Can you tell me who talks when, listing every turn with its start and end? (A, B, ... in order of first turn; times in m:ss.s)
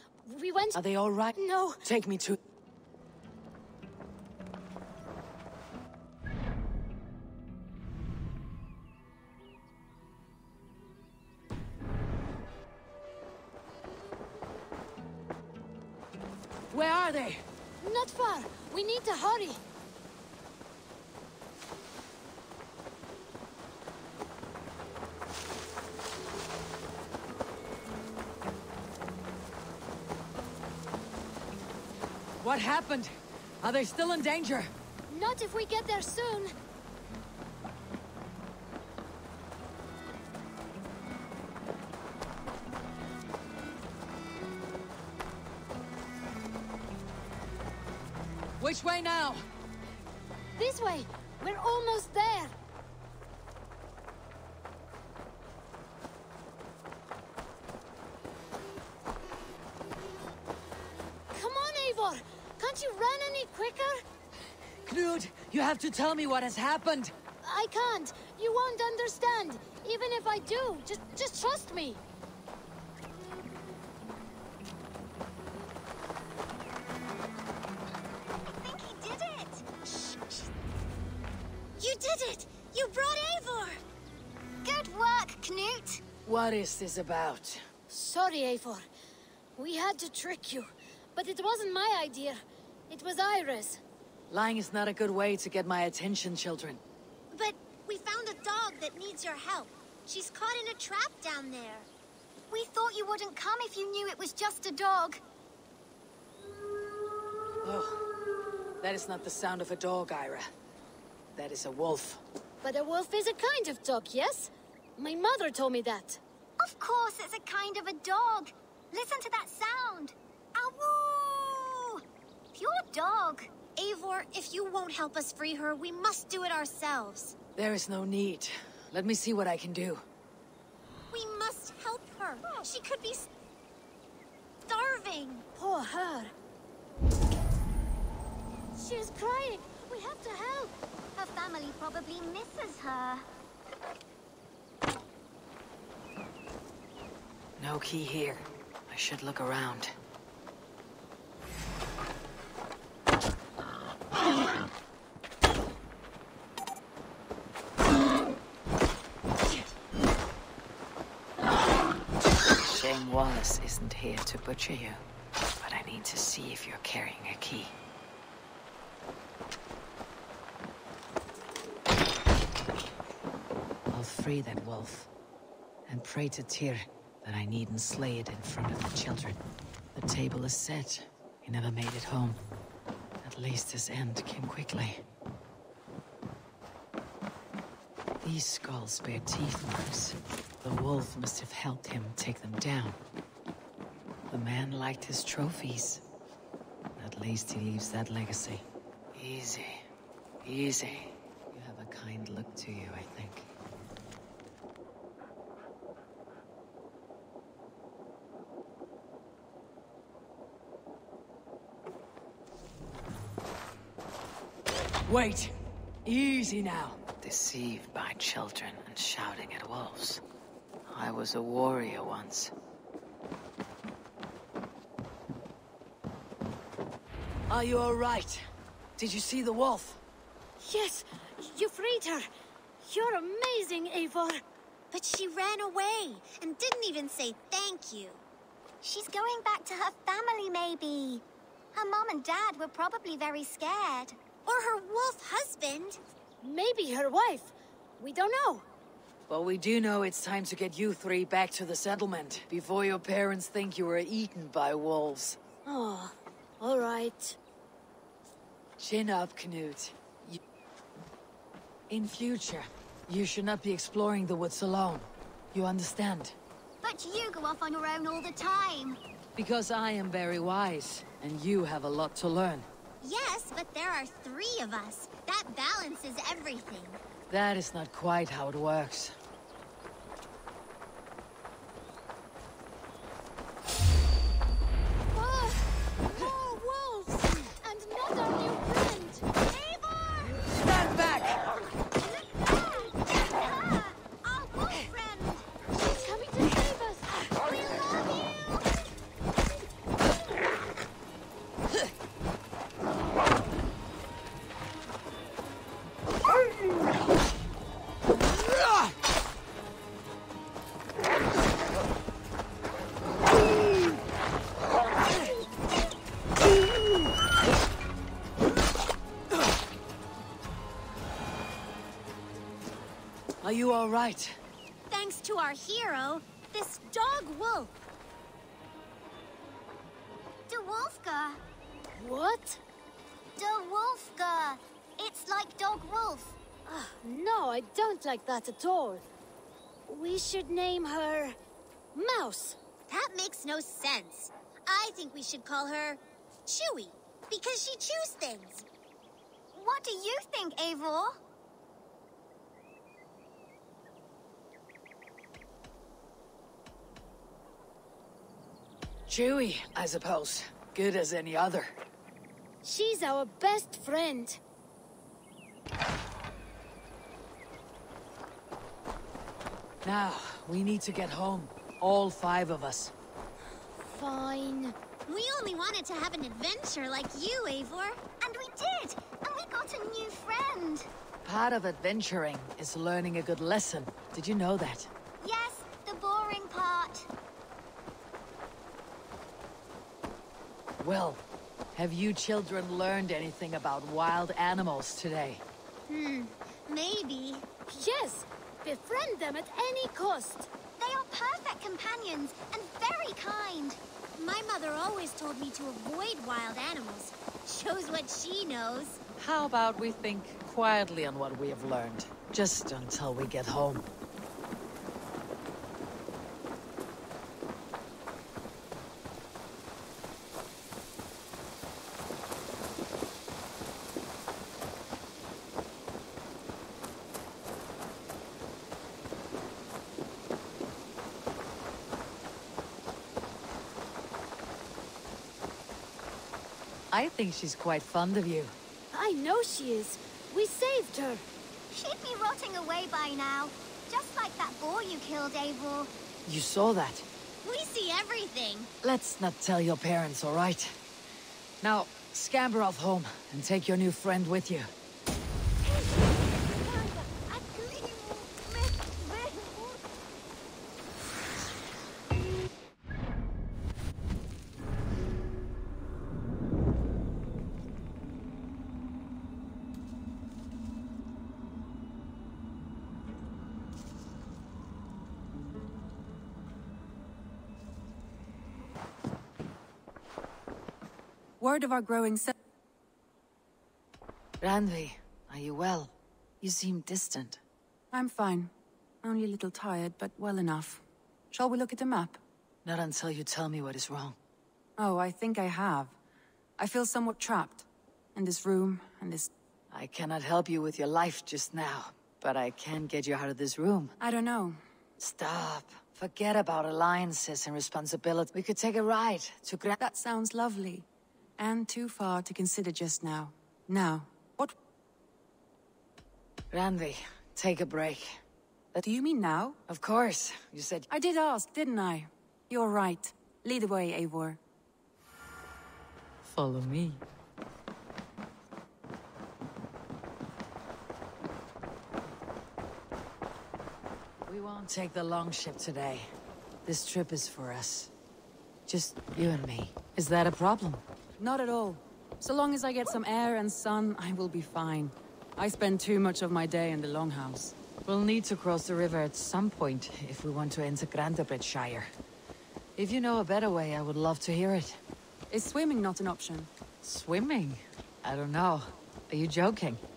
0:00.2-0:00.8 A
0:00.8-0:02.4 B
0:01.4-0:01.8 A
0:16.7-0:17.4 B
0:17.8-0:19.6 A
0:32.4-0:34.7 B
0:35.1-0:36.5 A
0:48.6-0:49.4 B
0:50.6-0:52.5 A
1:01.3-1:04.0 A
1:04.8-1:07.1 B
1:07.4-1:12.0 A
1:18.6-1:19.7 C
1:21.8-1:23.0 C
1:21.9-1:23.7 A
1:24.6-1:26.0 C
1:26.2-1:27.6 B
1:27.9-1:28.8 A
1:29.6-1:33.8 A
1:34.3-1:36.8 B
1:37.3-1:41.9 C
1:42.5-1:45.2 C
1:47.6-1:48.0 B
1:48.8-1:50.5 B
1:51.4-1:52.2 B
1:52.6-1:56.2 A
1:56.6-2:02.0 C
2:02.5-2:07.4 C
2:07.6-2:10.0 B
2:11.1-2:13.3 C
2:14.7-2:15.4 C
2:15.6-2:16.3 A
2:18.8-2:20.7 A
2:21.2-2:23.2 C
2:27.6-2:29.9 B
2:42.6-2:45.0 B
2:45.6-2:47.7 B
2:53.9-2:55.1 B
2:55.9-2:59.4 B
3:00.0-3:02.4 B
3:03.2-3:05.0 B
3:08.2-3:13.0 B
3:14.3-3:16.0 B
3:17.0-3:19.8 B
3:20.4-3:23.5 B
3:35.1-3:40.2 B
3:40.9-3:42.5 B
3:47.5-3:48.4 B
3:49.0-3:50.0 B
3:50.6-3:52.3 A
3:52.8-3:54.4 A
3:54.9-3:58.2 C
3:58.8-4:01.2 C
4:01.7-4:06.0 C
4:06.4-4:08.7 A
4:09.3-4:15.4 B
4:15.6-4:17.4 A
4:18.8-4:20.4 B
4:21.9-4:26.4 B
4:26.8-4:29.0 C
4:29.4-4:32.7 B
4:33.0-4:37.0 C
4:37.3-4:39.2 B
4:45.1-4:49.2 A
4:49.6-4:50.1 C
4:52.5-4:52.9 C
4:53.4-4:55.5 C
4:55.8-4:57.3 A
4:57.5-4:58.3 C
5:23.4-5:24.4 B
5:24.9-5:27.7 C
5:30.5-5:31.4 C
5:32.0-5:32.6 A
5:33.4-5:36.4 C
5:36.7-5:39.0 A
5:39.9-5:41.4 A
5:42.0-5:42.6 A
5:42.9-5:48.6 C
5:49.5-5:51.2 C
5:59.1-6:01.7 B
6:02.6-6:04.4 A
6:09.8-6:12.9 B
6:13.9-6:14.8 A
6:15.1-6:20.9 C
6:21.2-6:24.9 B
6:25.2-6:27.1 C
6:30.8-6:31.2 B
6:31.8-6:35.4 B
6:35.9-6:37.4 C
6:37.7-6:40.5 A
6:40.8-6:49.0 C
6:49.2-6:53.8 B
7:16.9-7:18.6 B
7:18.9-7:21.2 A
7:21.7-7:25.9 C
7:26.2-7:27.1 B
7:27.4-7:28.7 C
7:28.8-7:30.8 B
7:31.6-7:34.7 B
7:36.4-7:39.8 A
8:01.4-8:02.3 D
8:04.4-8:07.4 B
8:07.9-8:08.5 D
8:09.0-8:12.2 D
8:12.6-8:14.2 B
8:14.8-8:15.9 D
8:16.6-8:19.3 D
8:19.7-8:23.9 B
8:24.0-8:24.6 D
8:25.0-8:29.8 B
8:29.8-8:30.9 D
8:31.4-8:34.6 D
8:36.5-8:38.2 B
8:38.8-8:39.6 D
8:39.7-8:40.9 B
8:40.9-8:44.4 D
8:46.2-8:47.0 B
8:54.3-8:56.1 B
8:56.7-8:57.9 B
8:58.7-9:00.8 B
9:01.2-9:07.6 D
9:07.9-9:11.9 B
9:12.8-9:14.8 B
9:15.3-9:16.5 D
9:16.8-9:19.8 B